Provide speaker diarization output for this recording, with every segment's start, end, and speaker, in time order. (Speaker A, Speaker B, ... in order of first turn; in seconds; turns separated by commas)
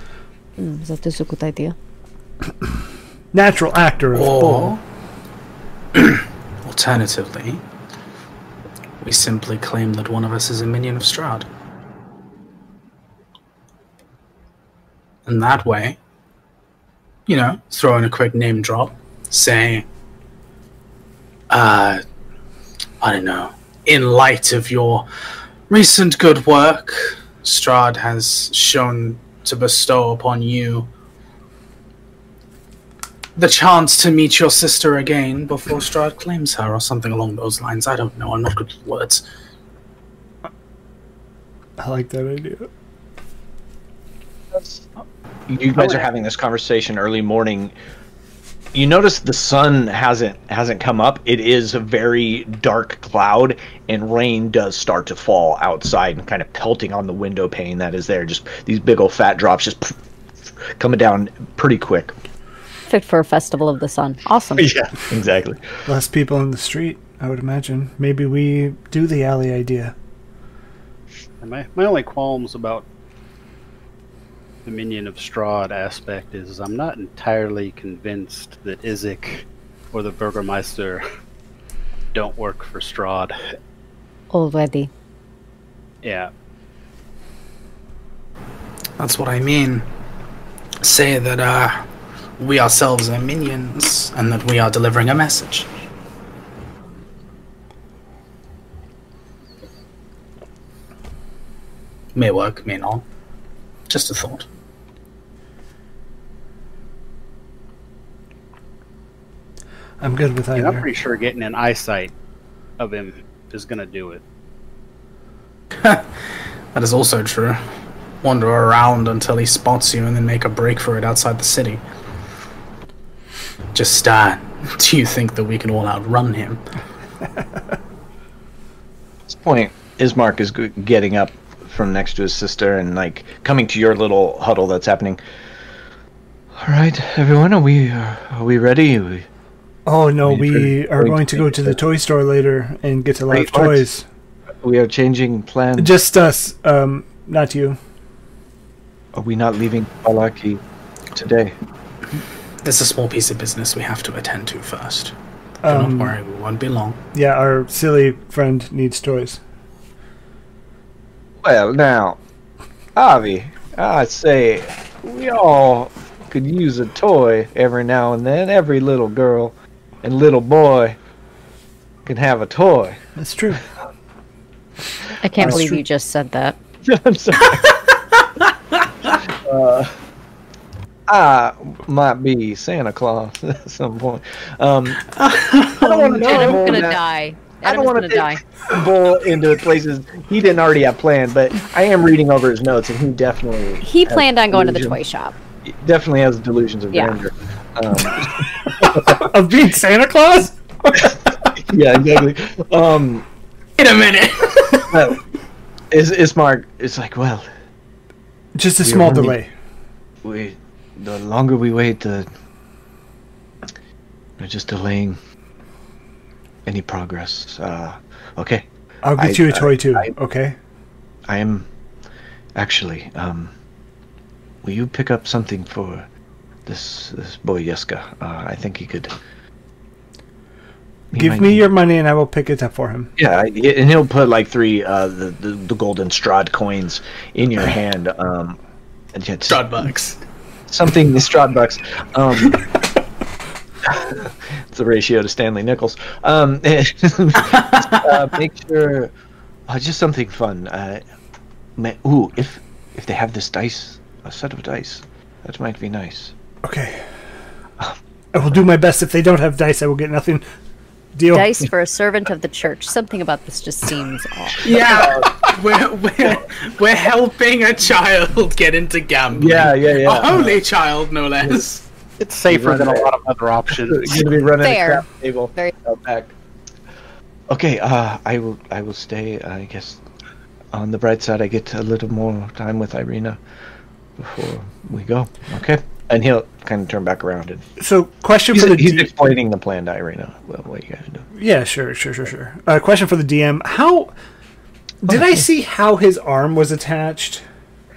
Speaker A: 0.6-1.8, Speaker B: 3.3-4.8, Speaker C: 4.1-4.8, Speaker C: 5.9-7.6, Speaker C: 9.0-11.5, Speaker C: 15.3-16.0, Speaker C: 17.3-19.9, Speaker C: 21.5-22.0, Speaker C: 23.0-25.1, Speaker C: 25.7-30.9, Speaker C: 33.4-39.2, Speaker B: 41.8-42.7, Speaker D: 44.5-44.9, Speaker D: 45.5-47.7, Speaker D: 48.7-60.0, Speaker D: 60.7-62.1, Speaker A: 62.9-64.7, Speaker D: 64.6-65.7, Speaker B: 65.9-70.0, Speaker E: 71.4-72.9, Speaker E: 74.7-81.0, Speaker E: 82.1-83.4, Speaker A: 84.3-84.9, Speaker E: 86.0-86.3, Speaker C: 89.0-89.9, Speaker C: 90.8-91.9, Speaker C: 92.4-95.7, Speaker C: 102.2-103.0, Speaker C: 103.9-104.5, Speaker B: 110.0-110.8, Speaker E: 110.5-112.1, Speaker E: 112.8-114.2, Speaker C: 115.8-117.6, Speaker C: 118.2-121.8, Speaker C: 123.7-126.6, Speaker D: 129.3-135.2, Speaker D: 136.6-139.3, Speaker B: 139.9-144.0, Speaker D: 140.2-141.8, Speaker D: 143.3-143.8, Speaker D: 144.6-145.9, Speaker B: 145.8-147.8, Speaker D: 149.1-150.6, Speaker D: 151.1-151.5, Speaker C: 152.6-155.2, Speaker B: 155.6-156.2, Speaker C: 155.7-157.0, Speaker B: 157.1-159.4, Speaker D: 161.4-162.2, Speaker D: 163.0-171.0, Speaker D: 172.1-173.0, Speaker B: 173.2-173.7, Speaker A: 175.2-176.6, Speaker B: 175.4-175.8, Speaker D: 175.4-175.7, Speaker D: 176.8-177.8, Speaker D: 179.2-179.9, Speaker D: 181.1-185.0, Speaker C: 185.1-186.8, Speaker D: 185.8-187.0, Speaker A: 186.1-188.4, Speaker D: 187.6-195.0, Speaker A: 193.8-195.4, Speaker D: 195.7-199.2, Speaker B: 198.8-201.2, Speaker D: 201.0-203.3, Speaker C: 203.8-205.1, Speaker D: 204.9-205.2, Speaker D: 205.9-207.5, Speaker B: 208.6-209.5, Speaker D: 208.8-209.4, Speaker D: 210.2-212.3, Speaker D: 214.4-215.2, Speaker D: 216.7-218.7, Speaker B: 219.0-220.6, Speaker D: 219.2-220.1, Speaker D: 221.3-221.7, Speaker D: 222.6-223.5, Speaker D: 224.6-226.1, Speaker D: 226.7-229.2, Speaker D: 231.1-231.7, Speaker B: 231.1-233.1, Speaker D: 233.2-238.6, Speaker D: 239.1-239.9, Speaker C: 239.5-240.2, Speaker D: 240.7-242.6, Speaker D: 243.8-249.1, Speaker D: 249.7-251.0, Speaker D: 251.8-256.4, Speaker B: 256.6-257.1, Speaker B: 258.3-260.5, Speaker B: 261.1-261.5, Speaker A: 261.3-264.8, Speaker C: 264.6-271.8, Speaker D: 264.8-265.4, Speaker D: 269.3-270.6, Speaker E: 272.2-274.3, Speaker D: 272.4-273.1, Speaker D: 273.7-276.3, Speaker A: 274.6-275.7, Speaker D: 277.5-280.0, Speaker D: 280.7-283.4, Speaker D: 284.2-287.7, Speaker B: 287.8-289.2, Speaker D: 288.5-291.3, Speaker B: 291.4-294.1, Speaker B: 295.0-297.4